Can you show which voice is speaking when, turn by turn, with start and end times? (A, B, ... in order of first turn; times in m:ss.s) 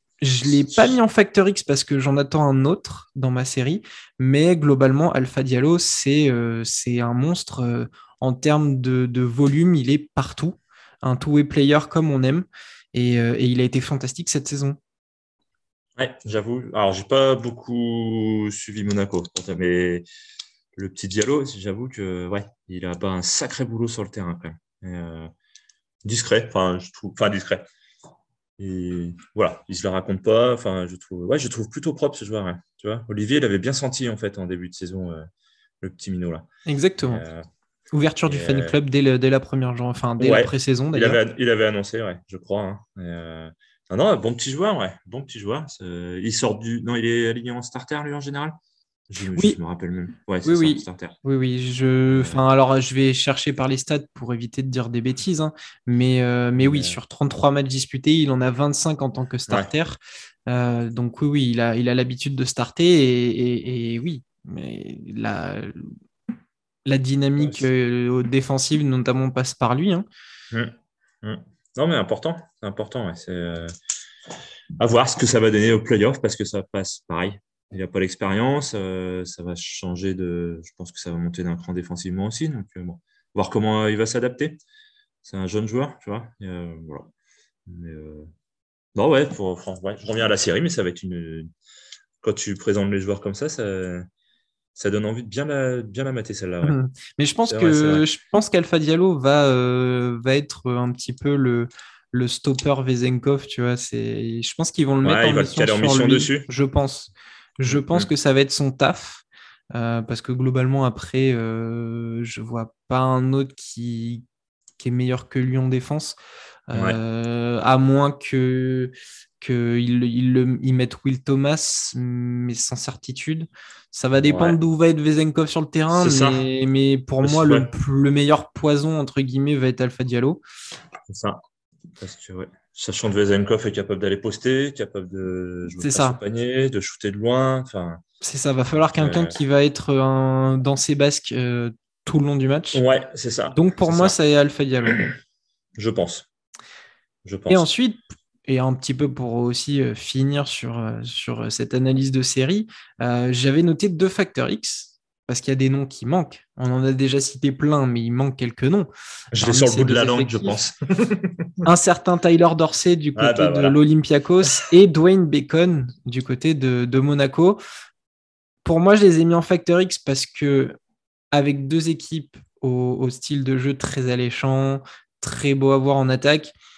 0:00.2-0:14.8 A
0:16.0-0:20.0 B
0:20.8-0:25.3 B
0:26.0-0:27.6 B
0:28.6-0:35.3 B
0:35.8-0:36.5 B
0:36.6-0:37.2 A
0:37.0-0:37.5 B
0:37.9-0:41.2 A
0:38.3-0:38.7 B
0:40.2-0:48.5 B
0:49.1-0:51.2 B
0:50.4-1:05.9 A
0:52.1-0:52.4 B
0:56.6-0:57.0 B
1:06.8-1:10.0 A
1:07.4-1:07.7 B
1:10.5-1:13.8 B
1:14.8-1:24.6 B
1:25.2-1:27.1 B
1:27.6-1:28.3 B
1:28.9-1:31.5 B
1:32.2-1:34.1 B
1:34.8-1:36.8 B
1:36.6-1:54.2 A
1:37.5-1:38.0 B
1:45.0-1:46.5 B
1:47.7-1:48.1 B
1:54.8-1:56.2 A
1:56.7-2:10.4 A
1:56.7-1:57.0 B
2:04.1-2:04.6 B
2:05.9-2:06.5 B
2:07.2-2:07.7 B
2:11.1-2:11.4 B
2:12.0-2:18.0 B
2:15.8-2:16.2 A
2:18.2-2:22.8 A
2:19.0-2:19.4 B
2:22.7-2:24.1 B
2:23.5-2:25.1 A
2:24.9-2:25.1 B
2:25.8-2:26.3 B
2:27.2-2:27.7 B
2:27.5-2:40.6 A
2:39.3-2:41.5 B
2:41.6-2:47.6 A
2:43.1-2:43.8 B
2:48.6-2:50.8 A
2:51.3-2:56.5 A